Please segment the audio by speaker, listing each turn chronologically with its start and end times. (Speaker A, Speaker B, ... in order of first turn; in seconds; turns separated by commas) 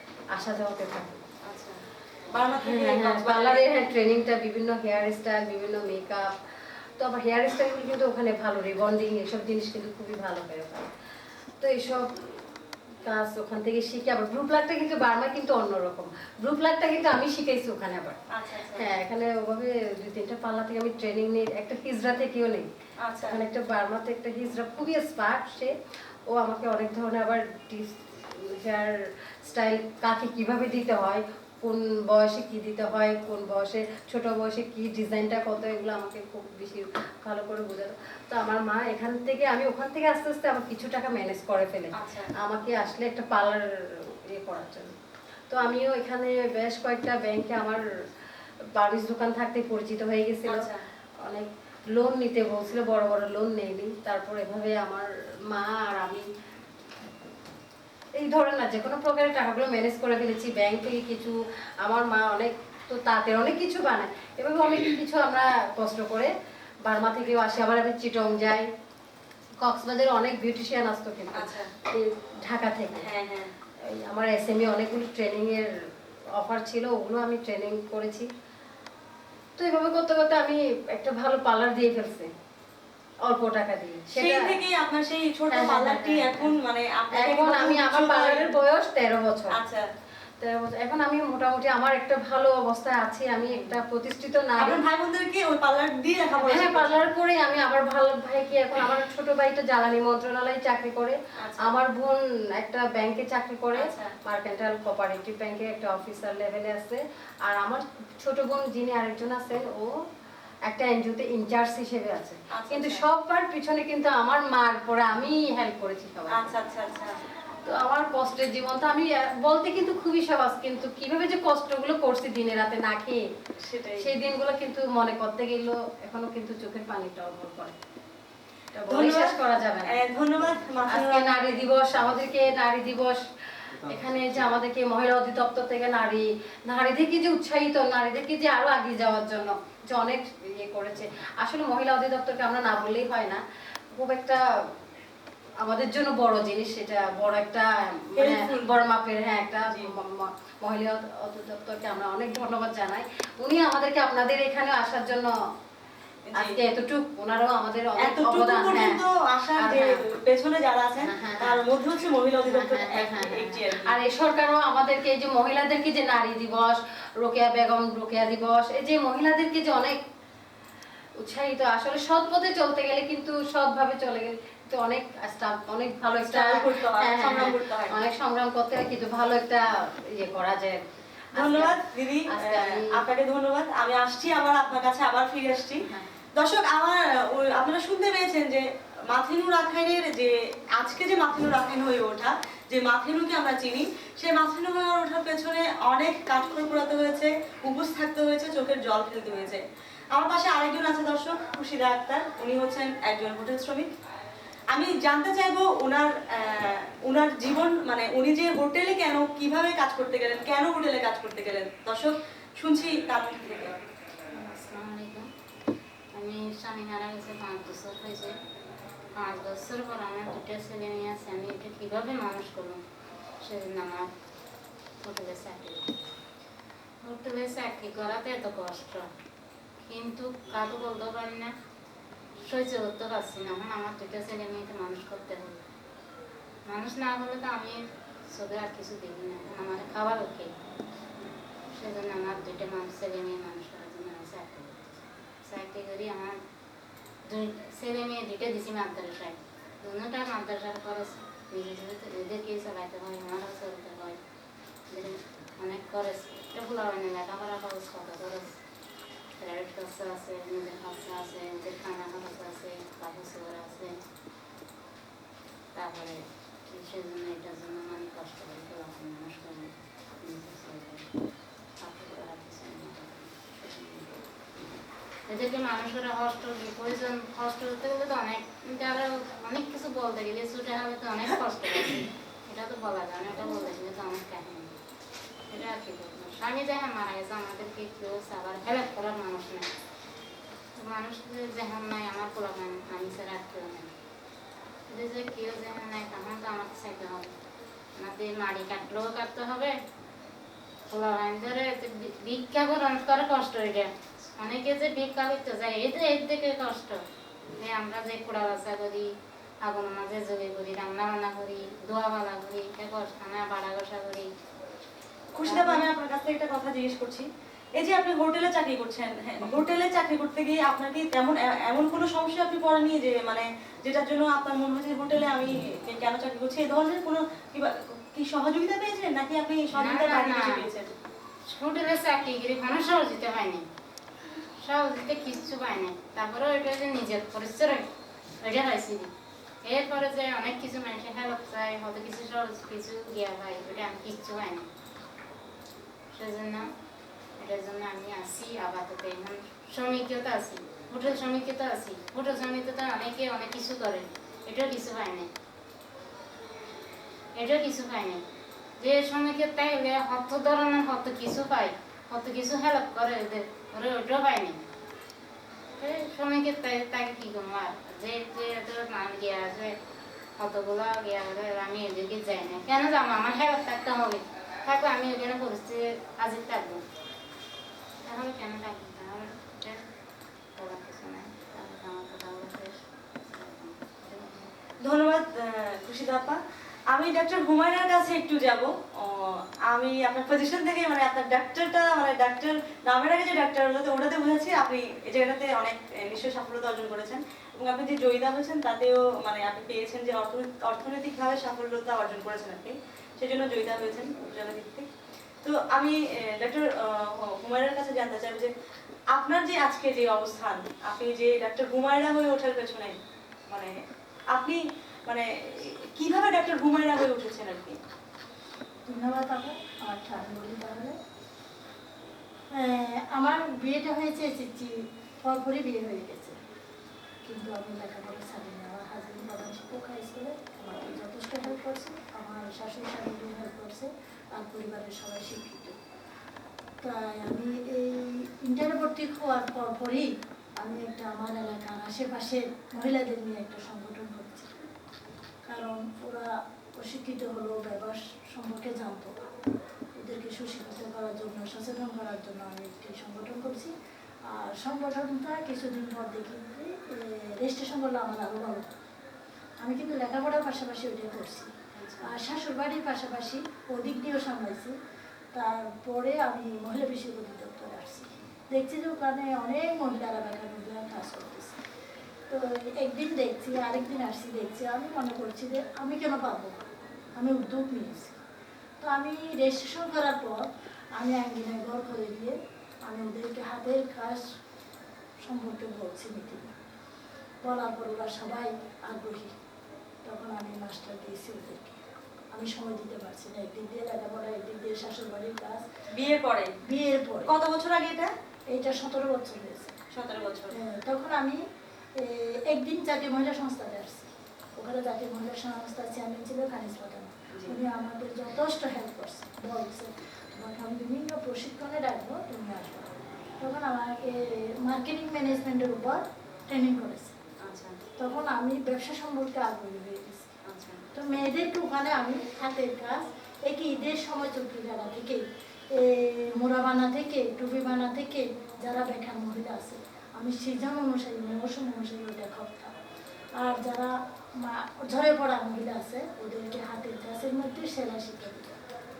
Speaker A: 0.3-1.2, Speaker B: 1.4-3.6, Speaker A: 2.6-6.3, Speaker A: 7.0-10.9, Speaker A: 11.6-18.2, Speaker B: 18.3-18.9, Speaker A: 18.7-22.7, Speaker B: 23.0-23.4, Speaker A: 23.2-25.7, Speaker A: 26.3-45.0, Speaker B: 42.0-42.3, Speaker A: 45.5-47.8, Speaker A: 48.8-50.7, Speaker B: 50.5-50.8, Speaker A: 51.2-56.3, Speaker A: 58.2-66.3, Speaker A: 66.8-68.7, Speaker A: 69.6-73.1, Speaker B: 71.3-71.7, Speaker B: 73.0-73.5, Speaker A: 73.8-78.3, Speaker A: 79.6-82.3, Speaker A: 83.2-84.6, Speaker B: 84.1-88.5, Speaker A: 85.5-86.5, Speaker A: 87.2-89.6, Speaker B: 89.5-89.8, Speaker A: 90.4-94.8, Speaker B: 93.5-93.8, Speaker B: 94.6-97.0, Speaker A: 96.4-110.0, Speaker B: 101.4-101.8, Speaker B: 103.8-104.2, Speaker A: 110.7-116.6, Speaker B: 112.5-113.0, Speaker B: 116.3-117.2, Speaker A: 117.7-123.3, Speaker B: 123.6-124.2, Speaker A: 124.0-127.8, Speaker A: 128.7-130.0, Speaker B: 128.9-131.7, Speaker A: 130.9-143.4, Speaker A: 143.9-144.7, Speaker A: 145.6-155.3, Speaker B: 148.2-148.7, Speaker B: 149.7-149.9, Speaker B: 156.3-156.6, Speaker A: 156.3-159.0, Speaker B: 158.0-164.0, Speaker A: 159.6-160.0, Speaker A: 161.0-161.6, Speaker A: 162.4-170.0, Speaker A: 171.2-183.1, Speaker B: 176.1-178.0, Speaker B: 181.4-185.8, Speaker B: 186.4-203.9, Speaker B: 204.7-213.8, Speaker C: 214.3-215.3, Speaker C: 216.1-218.3, Speaker C: 219.1-222.8, Speaker C: 223.4-224.1, Speaker C: 225.0-226.0, Speaker C: 227.0-229.1, Speaker C: 229.8-231.5, Speaker C: 232.5-235.6, Speaker C: 236.7-240.6, Speaker C: 241.7-246.4, Speaker C: 247.2-254.2, Speaker C: 254.9-258.6, Speaker C: 259.4-264.0, Speaker C: 265.7-271.1, Speaker C: 271.8-274.2, Speaker C: 275.3-284.7, Speaker C: 285.5-289.7, Speaker C: 290.8-293.9, Speaker C: 294.9-297.3, Speaker C: 298.0-299.8, Speaker C: 300.9-307.0, Speaker C: 307.5-309.1, Speaker C: 309.6-314.3, Speaker B: 315.4-330.9, Speaker C: 315.4-315.9, Speaker C: 329.7-330.6, Speaker C: 331.5-333.7, Speaker C: 334.6-337.9, Speaker C: 338.4-339.1, Speaker C: 339.6-344.7, Speaker C: 346.1-346.7, Speaker C: 347.4-355.3, Speaker C: 357.4-358.2, Speaker C: 358.8-364.6, Speaker C: 365.8-369.8, Speaker C: 370.4-376.8, Speaker C: 378.0-379.8, Speaker C: 380.6-384.6, Speaker B: 384.8-404.9, Speaker B: 405.4-408.5, Speaker B: 409.1-413.0, Speaker B: 413.5-417.8, Speaker D: 418.9-421.0, Speaker D: 422.5-426.4, Speaker D: 427.2-435.8, Speaker D: 436.8-444.5, Speaker D: 445.5-449.1, Speaker D: 449.9-458.7, Speaker D: 459.6-464.8, Speaker B: 461.7-462.1, Speaker D: 465.3-471.6, Speaker D: 472.3-476.6, Speaker D: 477.2-478.2, Speaker D: 478.8-484.2, Speaker D: 485.2-486.5, Speaker D: 487.4-489.3, Speaker D: 490.0-491.8, Speaker D: 492.3-495.7, Speaker B: 495.9-496.6, Speaker D: 496.6-497.3, Speaker B: 497.3-498.1, Speaker D: 498.5-499.8, Speaker B: 499.9-500.6, Speaker D: 500.5-501.4, Speaker D: 501.9-517.2, Speaker B: 507.3-507.6, Speaker B: 517.4-517.8, Speaker D: 518.0-520.3, Speaker B: 520.5-520.9, Speaker D: 520.9-532.7, Speaker D: 533.4-538.6